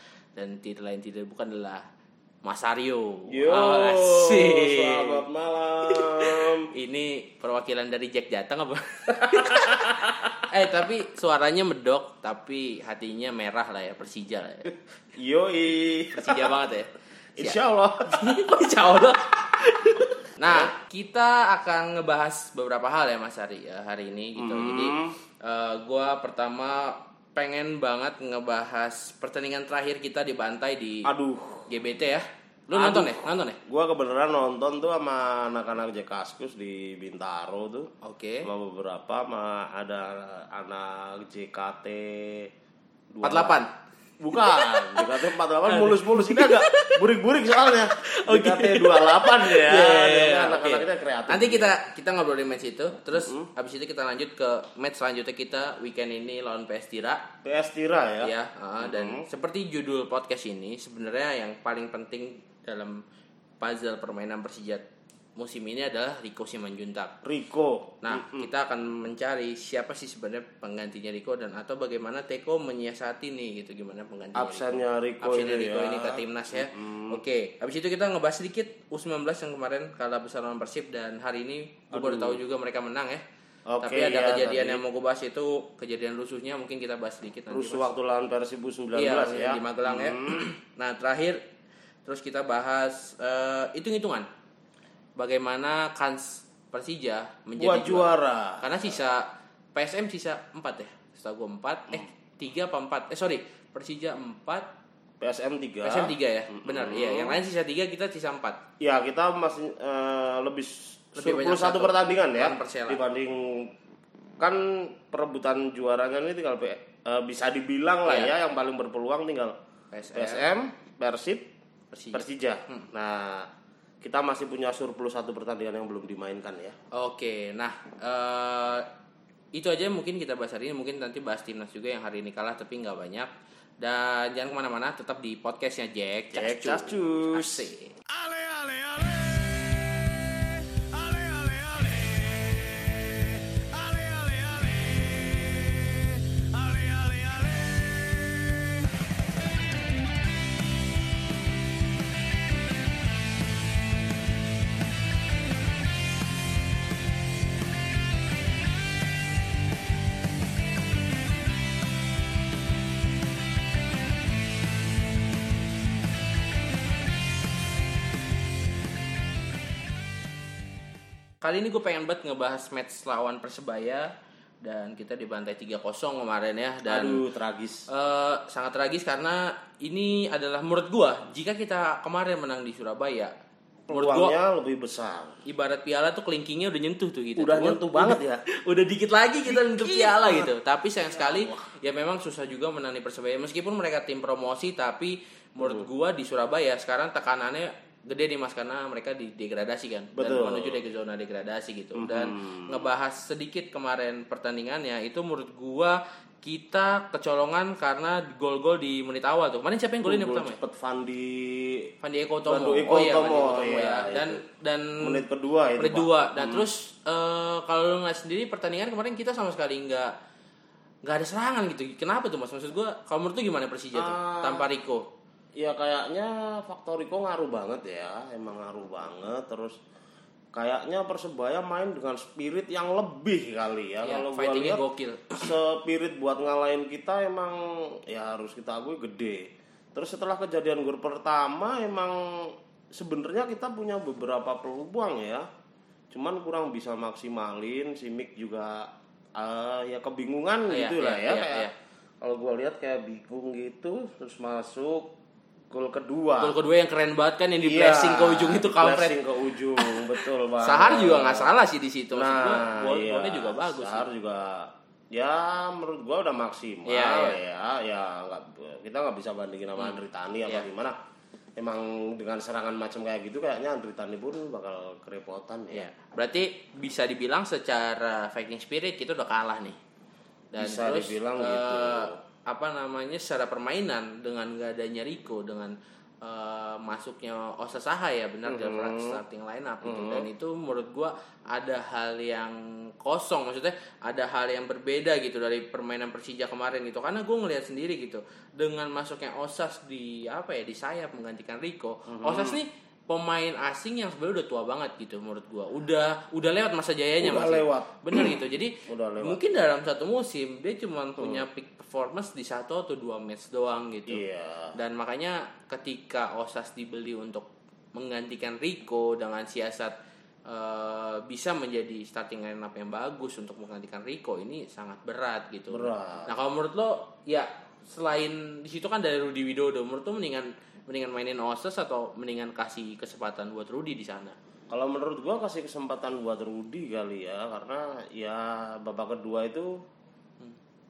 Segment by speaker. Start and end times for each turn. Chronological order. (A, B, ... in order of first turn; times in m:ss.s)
0:00.4-0:01.8 A
0:02.4-0:05.2 A
0:03.3-0:06.7 B
0:05.9-0:14.7 A
0:09.3-0:10.4 B
0:15.2-0:16.5 B
0:16.1-0:31.1 A
0:17.4-0:18.3 B
0:20.4-0:20.7 B
0:24.4-0:25.1 B
0:31.0-0:31.7 B
0:31.7-0:33.6 A
0:32.7-0:37.9 B
0:38.0-0:38.5 A
0:38.4-0:42.5 B
0:43.1-0:43.6 B
0:43.2-0:43.7 A
0:44.2-0:51.7 B
0:44.3-0:47.0 A
0:47.8-0:57.2 A
0:53.1-0:53.5 B
0:57.4-0:59.2 B
0:58.2-1:03.0 A
1:03.6-1:04.8 A
1:05.4-1:07.1 A
1:07.2-1:08.5 B
1:08.0-1:23.2 A
1:14.3-1:17.2 B
1:21.9-1:22.4 B
1:23.7-1:24.8 B
1:23.8-1:27.9 A
1:27.5-1:30.4 B
1:28.9-1:31.4 A
1:32.0-1:34.3 A
1:35.2-1:44.7 A
1:37.6-1:38.9 B
1:45.2-1:47.4 B
1:45.8-1:48.6 A
1:48.8-1:53.7 B
1:51.2-1:53.0 A
1:54.4-1:59.6 B
1:58.0-1:58.3 A
1:59.9-2:00.4 A
2:00.1-2:01.5 B
2:01.9-2:02.9 A
2:02.1-2:03.5 B
2:04.0-2:06.8 B
2:06.9-2:08.9 A
2:09.5-2:17.9 A
2:16.3-2:17.7 B
2:18.1-2:29.1 C
2:51.4-2:57.2 A
2:56.8-2:57.9 B
2:57.9-3:03.3 A
3:03.9-3:05.4 B
3:03.9-3:04.3 A
3:05.4-3:30.6 A
3:07.4-3:08.4 B
3:09.5-3:10.5 B
3:11.1-3:11.7 B
3:15.6-3:15.9 B
3:20.1-3:20.8 B
3:22.0-3:22.8 B
3:30.0-3:31.9 B
3:32.0-3:35.2 A
3:32.5-3:34.4 B
3:35.0-3:36.6 B
3:35.8-3:40.1 A
3:41.0-3:45.1 A
3:43.9-3:44.7 B
3:45.6-3:49.8 B
3:50.5-3:54.8 B
3:54.0-3:55.5 A
3:55.3-4:05.5 B
4:06.1-4:11.7 B
4:10.7-4:11.7 A
4:12.2-4:15.1 B
4:15.7-4:16.6 B
4:16.4-4:19.2 A
4:17.6-4:21.5 B
4:19.8-4:24.0 A
4:22.1-4:31.0 B
4:26.8-4:27.4 A
4:29.8-4:30.6 A
4:31.6-4:35.9 B
4:35.7-4:39.8 A
4:40.5-5:14.2 A
4:40.6-4:42.2 B
4:48.4-4:49.2 B
4:49.8-4:50.3 B
5:02.1-5:02.6 B
5:07.2-5:09.4 B
5:11.2-5:11.4 B
5:14.1-5:14.7 B
5:14.7-5:19.9 A
5:20.4-5:34.4 A
5:25.7-5:26.3 B
5:34.7-5:39.8 B